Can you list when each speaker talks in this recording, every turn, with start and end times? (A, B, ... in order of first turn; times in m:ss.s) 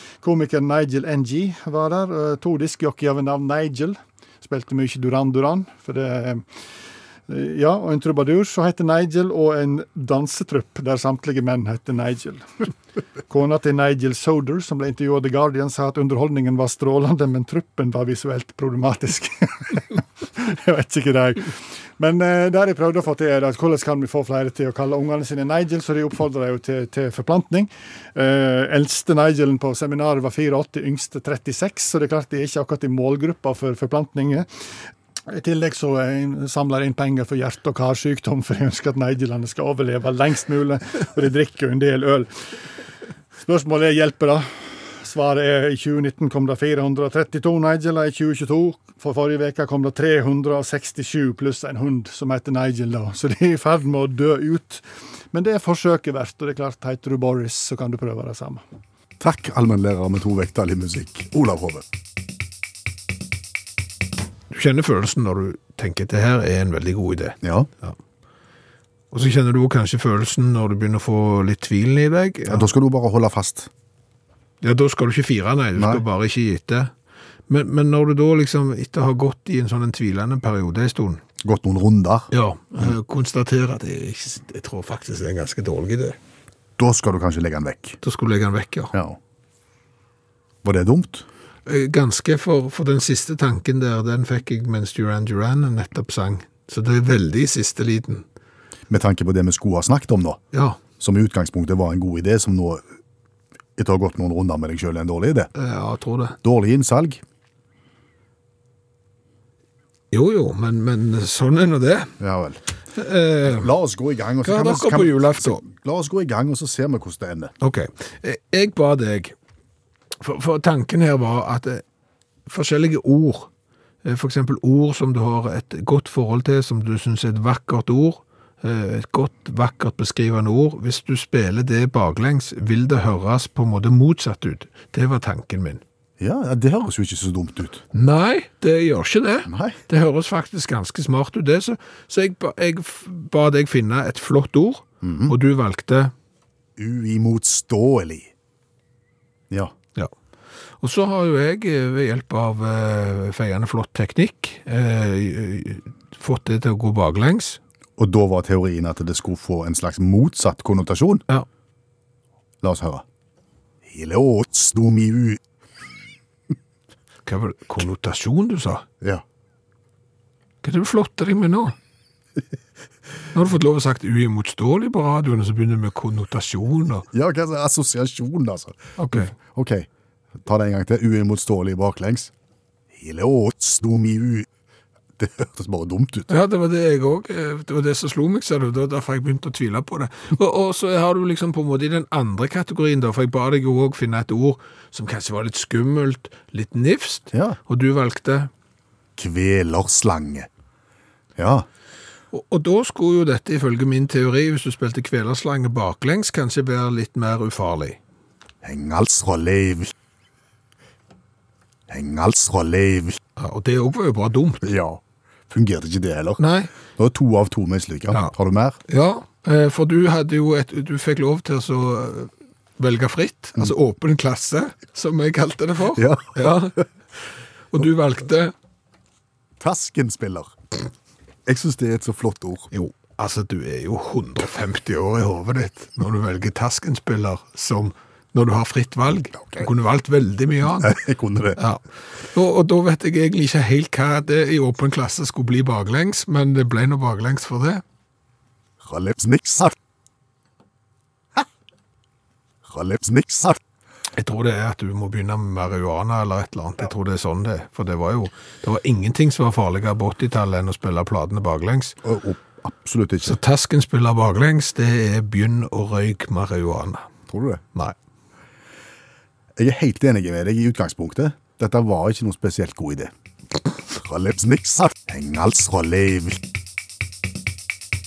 0:00.2-0:06.4 A
0:07.3-0:12.4 A
0:13.3-0:34.5 A
0:35.3-0:42.3 A
0:43.4-0:58.6 A
0:59.2-1:01.8 B
1:04.5-1:08.0 C
1:07.4-1:07.7 B
1:09.1-1:12.7 C
1:12.5-1:13.7 B
1:14.6-1:16.9 C
1:15.8-1:16.0 B
1:17.5-1:21.2 C
1:21.4-1:22.9 B
1:22.3-1:26.2 C
1:26.8-1:28.0 B
1:28.0-1:28.9 C
1:28.9-1:29.2 B
1:30.6-1:31.3 B
1:31.6-1:38.2 C
1:38.9-1:40.4 B
1:40.5-1:40.8 C
1:41.0-1:42.8 B
1:43.8-1:45.5 B
1:45.6-1:46.4 C
1:46.4-1:47.2 B
1:50.1-1:52.2 C
1:52.2-1:52.6 B
1:52.9-1:53.7 C
1:53.4-1:57.5 B
1:54.4-1:55.6 C
1:57.6-1:59.3 C
2:00.2-2:01.8 C
2:02.5-2:03.5 C
2:04.0-2:15.8 C
2:16.2-2:17.8 B
2:17.9-2:26.1 C
2:19.5-2:19.8 B
2:25.0-2:25.3 B
2:26.8-2:28.3 B
2:29.5-2:29.7 B
2:30.8-2:37.6 C
2:38.0-2:41.2 B
2:42.6-2:43.0 B
2:43.8-2:45.4 B
2:47.2-2:48.8 C
2:50.6-2:51.7 C
2:53.3-2:57.0 C
2:57.1-2:59.9 B
2:59.0-2:59.3 C
3:00.4-3:02.3 B
3:02.9-3:04.5 B
3:05.2-3:06.3 B
3:06.3-3:18.5 C
3:19.2-3:20.5 B
3:21.4-3:21.7 B
3:22.3-3:28.0 C
3:28.6-3:29.9 B
3:31.9-3:33.2 B
3:33.4-3:34.6 C
3:34.6-3:38.8 B
3:36.4-3:36.7 C
3:38.9-3:46.8 C
3:45.9-3:46.7 B
3:47.7-3:48.5 C
3:49.6-3:50.5 B
3:51.4-3:52.7 B
3:52.7-4:01.0 C
3:59.4-3:59.7 B
4:00.8-4:01.6 B
4:01.6-4:07.8 C
4:08.8-4:09.8 B
4:12.6-4:13.6 B
4:14.1-4:22.0 C
4:22.0-4:23.4 B
4:23.2-4:27.0 C
4:27.3-4:27.6 B
4:29.6-4:33.1 B
4:33.9-4:36.4 B